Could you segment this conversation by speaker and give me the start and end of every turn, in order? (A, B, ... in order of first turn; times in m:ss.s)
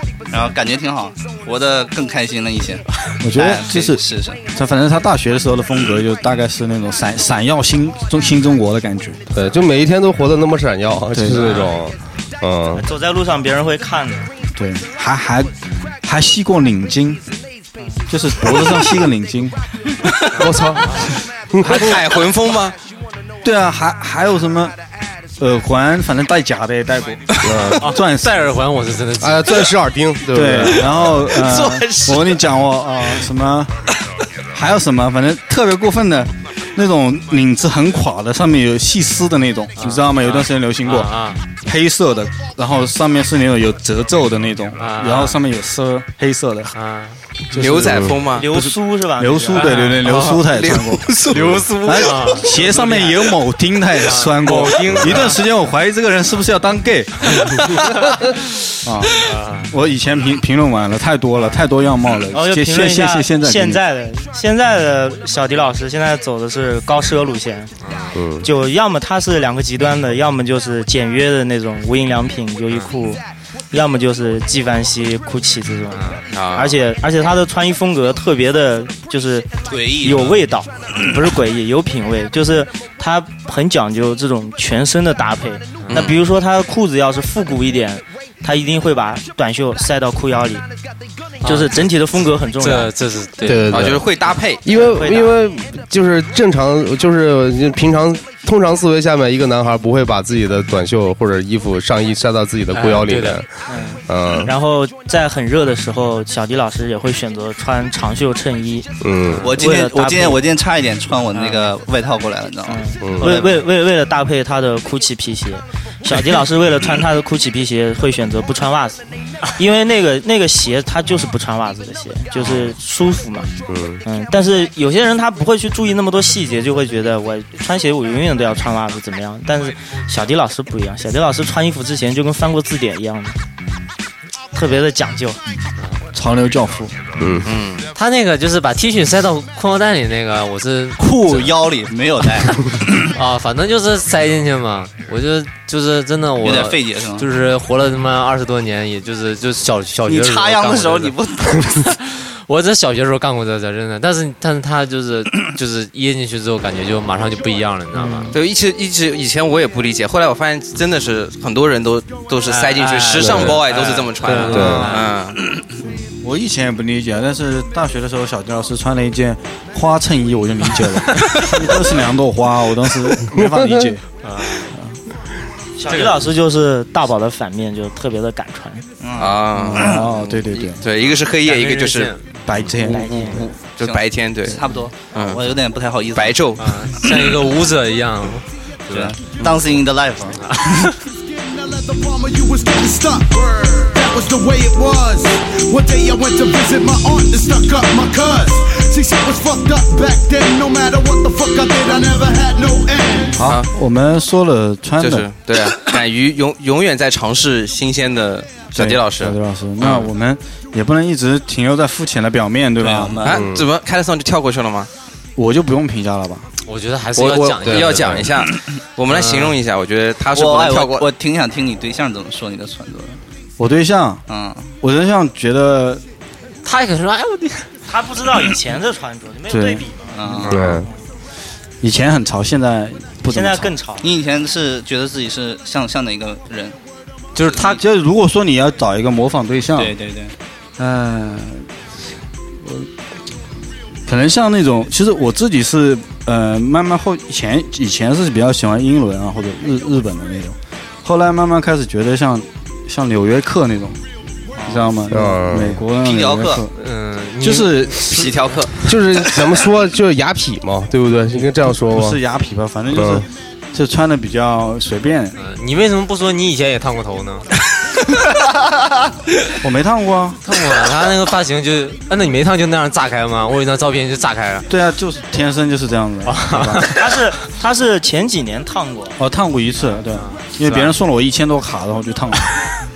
0:00.3-0:04.4 A
0:03.2-0:09.2 B
0:09.3-0:12.8 C
0:11.1-0:11.6 B
0:11.4-0:11.7 D
0:12.8-0:14.3 E
0:14.6-0:17.2 B
0:18.1-0:19.6 B
0:20.4-0:22.0 C
0:20.8-0:21.1 D
0:21.6-0:22.8 F
0:21.6-0:22.0 B
0:23.4-0:24.8 B
0:25.4-0:28.3 B
0:27.4-0:27.8 C
0:27.5-0:29.7 D
0:29.2-0:31.2 C
0:30.3-0:33.7 B
0:31.3-0:32.3 F
0:34.5-0:46.7 B
0:39.8-0:41.4 D
0:44.8-0:45.4 D
0:46.7-0:47.2 D
0:47.5-0:57.6 B
0:47.5-0:48.5 F
0:48.3-0:49.9 E
0:49.6-0:50.5 D
0:50.5-0:51.6 F
0:51.3-0:53.4 D
0:54.0-0:55.4 D
0:54.9-0:55.2 C
0:57.3-0:57.6 D
0:58.8-1:03.8 B
0:59.2-0:59.7 D
1:02.3-1:07.7 E
1:07.8-1:08.2 D
1:08.1-1:08.5 C
1:08.4-1:13.2 E
1:13.7-1:19.5 E
1:15.9-1:16.2 D
1:16.3-1:16.8 F
1:19.7-1:20.4 A
1:20.0-1:30.6 E
1:25.8-1:26.1 D
1:25.9-1:26.2 F
1:31.4-1:31.9 D
1:31.4-1:32.9 E
1:32.6-1:33.9 D
1:33.4-1:43.4 C
1:33.7-1:34.6 F
1:34.7-1:35.4 E
1:42.7-1:43.4 D
1:43.6-1:50.4 E
1:44.0-1:44.5 C
1:49.0-1:49.4 C
1:49.4-1:53.4 A
1:51.3-1:51.7 E
1:52.7-2:03.5 E
1:53.0-1:53.4 C
2:02.4-2:02.7 D
2:03.7-2:04.0 C
2:04.0-2:13.4 E
2:14.5-2:15.4 E
2:16.1-2:17.3 B
2:17.2-2:17.5 C
2:17.4-2:17.9 F
2:17.9-2:21.6 D
2:21.0-2:23.0 A
2:22.4-2:31.2 D
2:26.4-2:27.3 A
2:30.1-2:31.8 A
2:31.8-2:38.4 D
2:38.3-2:45.4 F
2:42.4-2:45.1 D
2:43.2-2:43.6 C
2:44.4-2:44.9 B
2:44.5-2:44.9 C
2:46.2-2:54.0 B
2:53.3-2:54.0 C
2:54.2-2:54.7 D
2:54.7-2:55.0 B
2:55.8-2:58.8 E
2:55.9-2:56.2 D
2:59.0-3:00.0 A
2:59.2-3:00.0 F
2:59.5-3:00.8 B
3:00.7-3:02.2 F
3:01.4-3:02.2 D
3:02.4-3:03.1 B
3:02.8-3:03.4 E
3:03.1-3:04.6 F
3:03.8-3:06.4 A
3:05.1-3:05.4 F
3:06.1-3:06.8 F
3:06.6-3:09.2 D
3:07.0-3:07.3 A
3:08.9-3:10.9 A
3:10.4-3:11.0 D
3:14.1-3:15.1 G
3:16.0-3:18.2 G
3:19.1-3:21.9 G
3:22.5-3:22.9 G
3:23.3-3:25.3 B
3:23.4-3:23.7 F
3:25.0-3:30.1 F
3:28.7-3:33.2 B
3:32.8-3:33.4 A
3:33.2-3:34.9 F
3:33.3-3:33.7 C
3:35.4-3:36.5 B
3:36.6-3:38.3 D
3:37.1-3:41.1 F
3:37.6-3:38.2 C
3:39.1-3:39.5 D
3:40.3-3:43.2 A
3:43.6-3:44.2 B
3:44.3-3:44.7 A
3:44.8-3:46.0 B
3:46.6-3:47.7 D
3:47.9-3:50.1 E
3:49.5-3:50.4 B
3:50.1-3:50.7 A
3:50.4-3:50.9 C
3:50.7-3:50.9 E
3:51.8-3:53.7 B
3:53.3-3:54.1 E
3:54.0-3:56.8 A
3:57.3-3:57.8 D
3:57.6-4:00.0 B
3:59.8-4:00.3 A
4:00.8-4:01.7 B
4:02.6-4:02.9 B
4:04.0-4:14.0 B
4:14.6-4:15.0 A
4:14.6-4:16.8 B
4:15.1-4:15.8 C
4:16.0-4:16.6 A
4:16.7-4:18.3 D
4:17.4-4:18.3 B
4:18.1-4:18.7 F
4:18.8-4:22.2 C
4:21.7-4:25.4 B
4:22.9-4:23.2 C
4:25.4-4:27.5 D
4:29.6-4:30.4 B
4:30.4-4:34.7 D
4:34.7-4:36.9 B
4:36.2-4:37.0 D
4:36.9-4:39.2 E
4:39.2-4:42.5 B
4:40.1-4:41.0 D